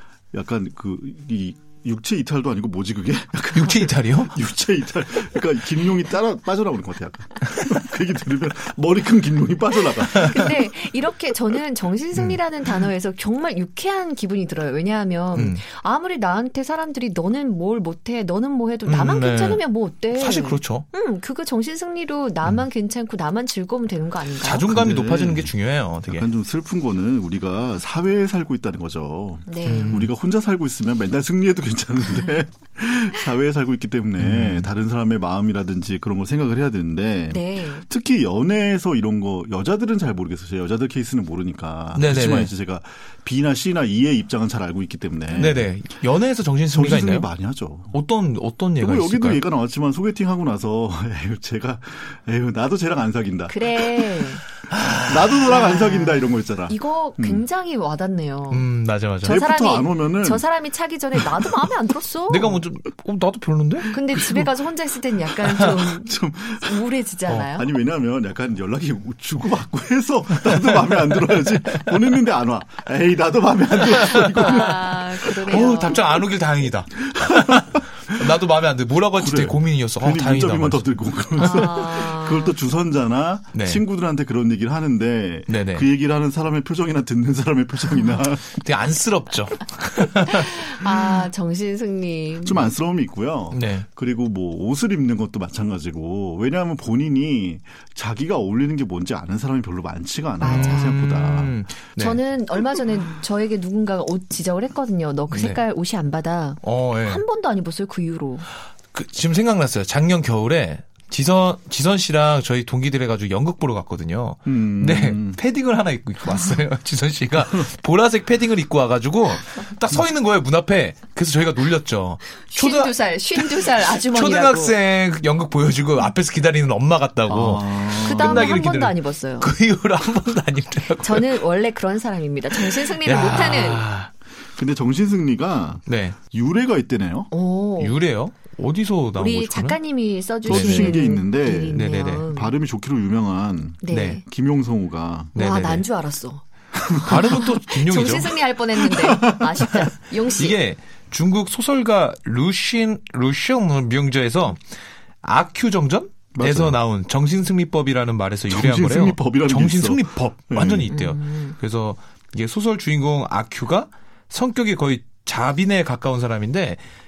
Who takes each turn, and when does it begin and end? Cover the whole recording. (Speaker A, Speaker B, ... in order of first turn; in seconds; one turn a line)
Speaker A: 0.3-10.9
Speaker B: 3.5-4.3
Speaker C: 10.2-24.7
Speaker B: 15.3-15.6
Speaker B: 18.9-20.9
Speaker B: 24.4-26.3
Speaker A: 24.6-25.5
Speaker A: 26.1-45.7
Speaker C: 29.5-30.1
Speaker B: 29.6-30.1
Speaker B: 34.2-34.7
Speaker C: 37.3-37.9
Speaker B: 42.0-42.5
Speaker B: 45.3-47.3
Speaker A: 46.7-48.0
Speaker B: 47.9-49.4
Speaker A: 48.8-54.2
Speaker C: 53.5-54.4
Speaker B: 54.7-55.5
Speaker A: 55.1-57.5
Speaker C: 55.5-58.7
Speaker B: 58.5-59.4
Speaker C: 59.2-62.6
Speaker A: 59.2-60.5
Speaker B: 62.3-63.9
Speaker C: 63.9-67.7
Speaker A: 64.0-64.5
Speaker A: 65.5-66.9
Speaker A: 67.5-76.0
Speaker C: 74.4-76.0
Speaker B: 75.5-80.8
Speaker A: 77.0-78.4
Speaker A: 79.2-88.6
Speaker C: 81.4-82.5
Speaker B: 83.6-83.8
Speaker B: 85.5-85.9
Speaker B: 88.5-90.7
Speaker C: 90.5-92.7
Speaker A: 92.4-101.6
Speaker B: 93.5-93.9
Speaker C: 100.4-101.0
Speaker B: 100.4-102.2
Speaker C: 102.0-108.5
Speaker B: 105.3-105.6
Speaker B: 106.6-107.2
Speaker B: 108.9-131.4
Speaker A: 114.5-115.4
Speaker C: 122.4-124.8
Speaker A: 127.3-128.6
Speaker C: 128.0-129.5
Speaker C: 131.0-133.9
Speaker B: 132.6-134.1
Speaker A: 134.6-137.3
Speaker B: 135.9-136.2
Speaker C: 137.3-138.0
Speaker B: 137.8-139.9
Speaker C: 139.2-142.6
Speaker A: 140.4-145.3
Speaker B: 140.5-141.1
Speaker B: 141.7-142.2
Speaker C: 143.8-144.2
Speaker B: 143.9-144.2
Speaker B: 145.3-145.9
Speaker C: 145.4-146.4
Speaker A: 146.8-147.2
Speaker B: 147.1-148.4
Speaker C: 147.3-150.6
Speaker A: 148.9-149.9
Speaker B: 150.4-154.6
Speaker B: 155.2-166.8
Speaker A: 156.3-156.8
Speaker A: 158.5-160.9
Speaker C: 160.9-161.6